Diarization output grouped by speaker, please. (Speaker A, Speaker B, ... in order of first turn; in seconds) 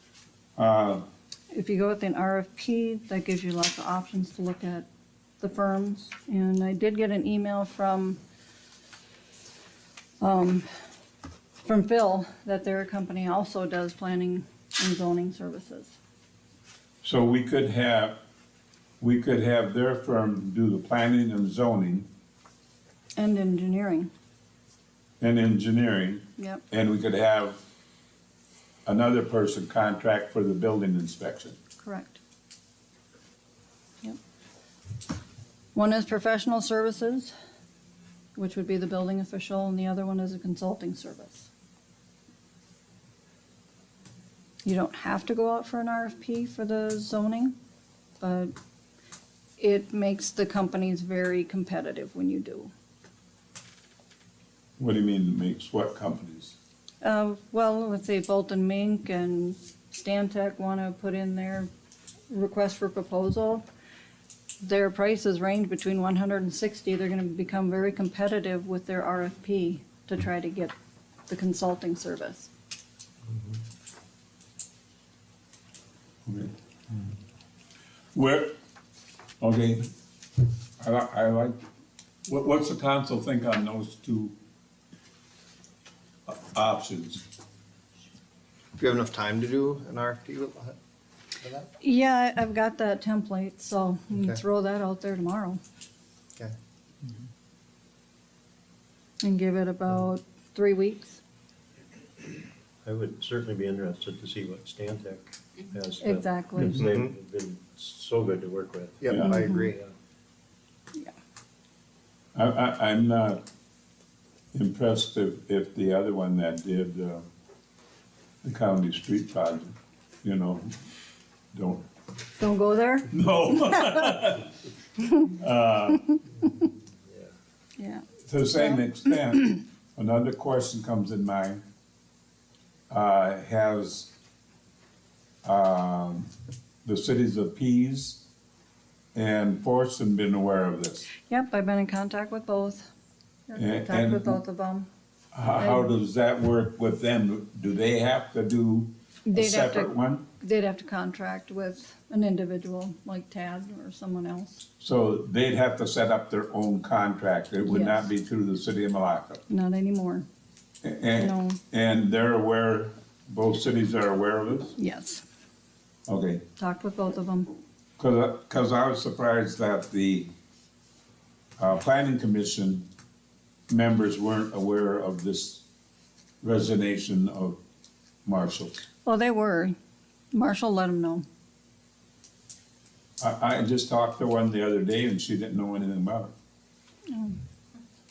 Speaker A: 0.6-1.0, 17.0-18.2, 19.0-22.1, 25.2-27.6, 28.9-31.6, 54.8-56.5, 76.2-76.5, 78.1-78.5, 79.4-79.9, 80.8-81.6, 82.3-84.3, 86.3-87.2, 109.1-109.3, 112.3-113.4, 114.5-117.3, 118.4-120.7, 121.5-121.9, 123.1-124.6, 125.1-126.2, 128.3-131.6, 132.9-134.1, 135.4-136.3, 136.8-138.2, 139.1-141.1, 143.6-144.4, 145.3-150.2, 154.8-159.4, 160.8-164.8, 166.1-166.4, 168.0-170.3, 171.6-172.9, 173.7-175.6, 176.4-177.6, 178.2-178.8, 183.2-186.3
Speaker B: 1.5-4.8, 5.4-8.2, 10.2-10.6, 11.6-15.9, 23.2-24.1, 26.4-26.6, 31.8-32.2, 35.7-37.3, 38.4-41.5, 44.6-47.5, 48.2-48.5, 49.6-52.7, 57.0-61.7, 62.3-63.6, 64.6-70.7, 71.3-72.5, 91.8-95.6, 99.2-101.2, 106.0-106.8, 109.2-109.7, 122.4-123.1, 127.8-128.0, 128.6-128.8, 141.3-142.9, 143.5-144.9, 145.6-145.9, 149.3-154.6, 157.7-158.1, 159.5-160.3, 161.1-161.6, 164.8-165.2, 166.6-167.5, 179.0-179.8, 180.3-181.2, 187.1-187.4
Speaker C: 88.8-90.8, 91.4-91.7, 94.1-94.4, 106.7-107.1, 109.0-109.9
Speaker D: 102.8-109.0